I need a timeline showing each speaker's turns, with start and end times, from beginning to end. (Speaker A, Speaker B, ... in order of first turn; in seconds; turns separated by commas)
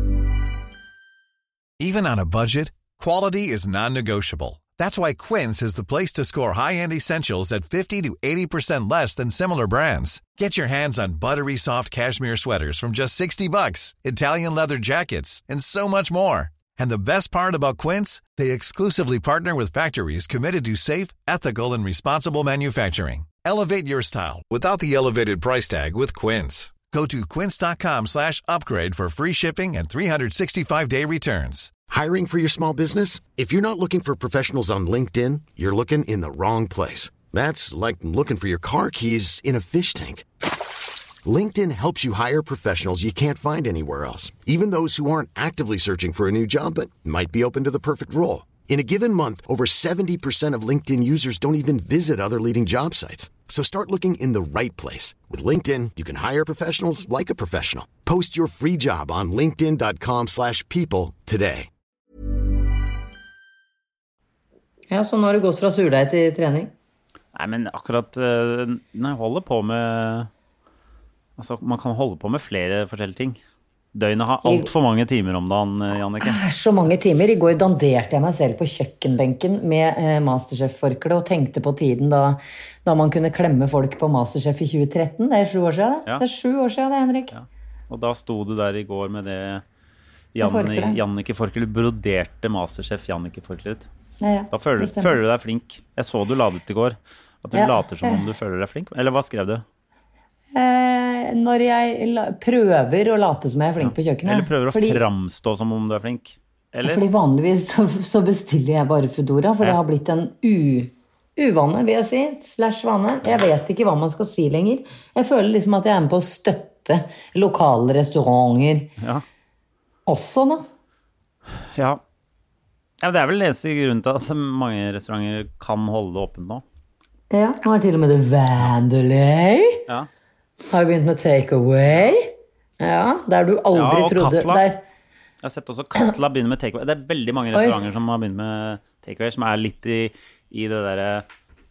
Speaker A: 1.8-31.7, Speaker B: 31.9-40.2, Speaker B: 41.2-61.7, Speaker C: 64.9-66.7, Speaker D: 67.3-70.3, Speaker D: 71.4-73.4, Speaker D: 73.9-76.4, Speaker C: 74.4-74.7, Speaker C: 76.2-87.3, Speaker D: 87.3-89.6, Speaker D: 90.3-93.9, Speaker C: 90.4-91.0, Speaker C: 94.2-95.2, Speaker D: 94.5-99.6, Speaker C: 97.5-98.2, Speaker C: 100.5-105.0, Speaker D: 103.8-107.0, Speaker C: 106.8-118.9, Speaker D: 119.0-119.2, Speaker C: 120.1-120.6, Speaker D: 121.6-122.0, Speaker D: 123.0-126.6, Speaker C: 127.3-129.8, Speaker C: 130.7-134.8, Speaker D: 133.7-134.6, Speaker D: 135.4-141.2